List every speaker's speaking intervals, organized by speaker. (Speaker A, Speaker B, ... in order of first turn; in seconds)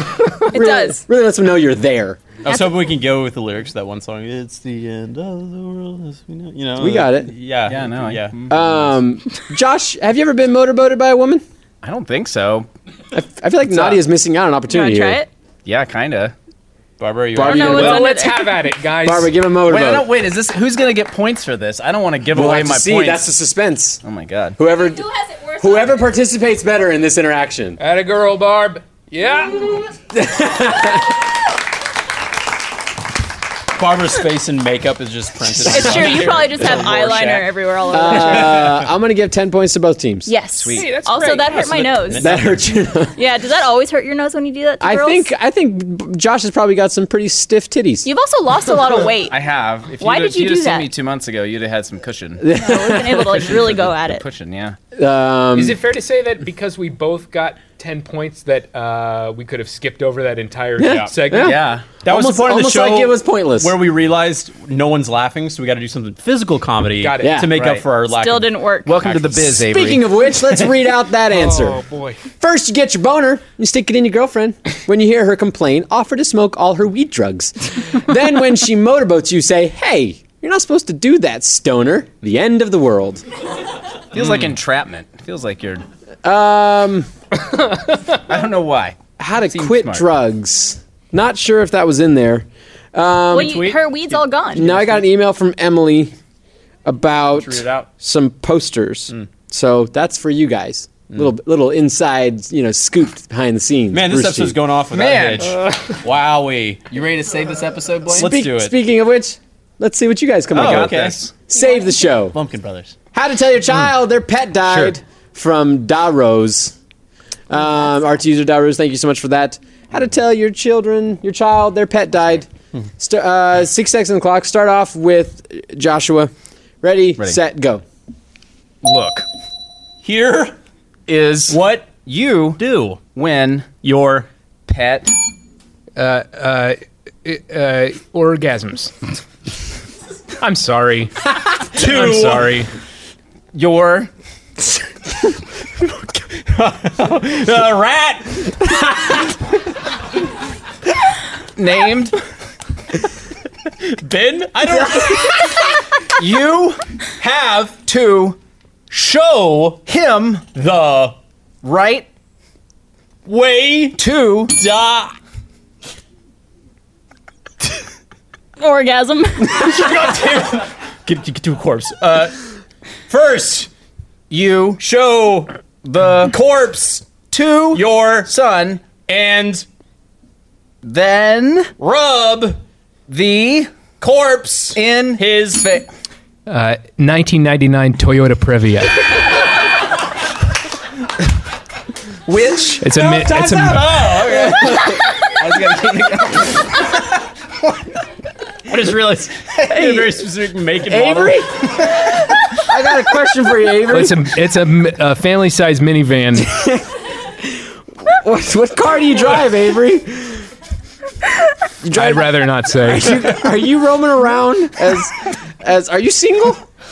Speaker A: 0.3-2.2, 6.8-7.3, 8.5-11.4, 13.1-15.2, 17.3-18.1, 19.1-20.1, 22.3-24.0, 24.6-25.1, 25.6-27.8, 30.1-31.1, 37.9-40.3, 42.2-43.1, 44.8-48.1, 52.4-53.5, 55.0-55.8, 60.8-63.8, 67.2-67.5, 69.7-71.8, 72.4-83.2, 86.2-87.1, 89.2-93.7, 94.5-96.1, 96.9-104.6, 108.2-112.4, 113.1-116.8, 117.5-122.5, 123.0-127.8, 194.3-194.9, 200.9-201.9, 202.6-204.2, 206.4-206.9, 207.4-210.5, 211.8-216.6
Speaker B: 0.5-1.0, 2.5-2.9, 14.7-15.3, 17.4-18.6, 24.7-26.1, 35.6-38.7, 40.3-42.3, 43.2-45.3, 48.0-49.4, 50.0-50.9, 52.5-54.2, 68.1-69.0, 93.3-94.7, 111.5-111.9, 168.6-169.8
Speaker C: 2.4-8.5, 17.0-18.0, 33.8-37.5, 38.2-38.7, 41.5-42.6, 62.0-69.7, 93.3-95.0, 97.3-97.9, 103.9-106.9, 108.1-108.8, 110.5-111.2, 112.3-113.0, 130.0-130.6, 131.5-131.9, 132.6-133.0, 133.8-134.3, 141.8-142.6, 146.4-149.2, 153.8-155.6, 160.6-161.2, 163.2-164.0, 164.5-165.1, 169.4-172.3, 173.1-173.7, 174.8-175.5, 176.2-177.1, 177.7-178.3, 179.0-179.7, 181.8-182.6, 184.0-185.9, 192.9-194.9, 198.7-201.4
Speaker D: 7.7-8.6, 11.8-12.7, 15.7-16.3, 19.7-23.3, 24.0-24.6, 40.6-40.9, 49.3-52.4, 53.9-54.8, 61.4-61.9, 67.5-67.8, 68.8-70.1, 84.1-85.8, 88.2-90.1, 104.9-105.7, 106.9-108.3, 110.5-111.3, 128.8-129.3, 131.1-133.7, 134.7-135.1, 143.5-144.1, 151.6-152.2, 156.1-158.4, 158.9-160.5, 161.6-162.1, 164.0-164.5, 174.3-174.8, 175.8-176.3, 177.3-178.8, 180.8-181.7, 183.1-183.7, 184.7-185.8, 192.3-192.9, 194.5-194.8, 195.3-196.8, 199.6-200.1
Speaker E: 17.6-19.3, 27.8-29.9, 40.7-41.6, 55.5-61.6, 67.0-67.5, 71.3-72.2, 136.0-138.9, 140.4-141.1, 141.8-142.7, 186.5-189.2, 192.8-194.1, 203.9-206.5, 211.9-213.4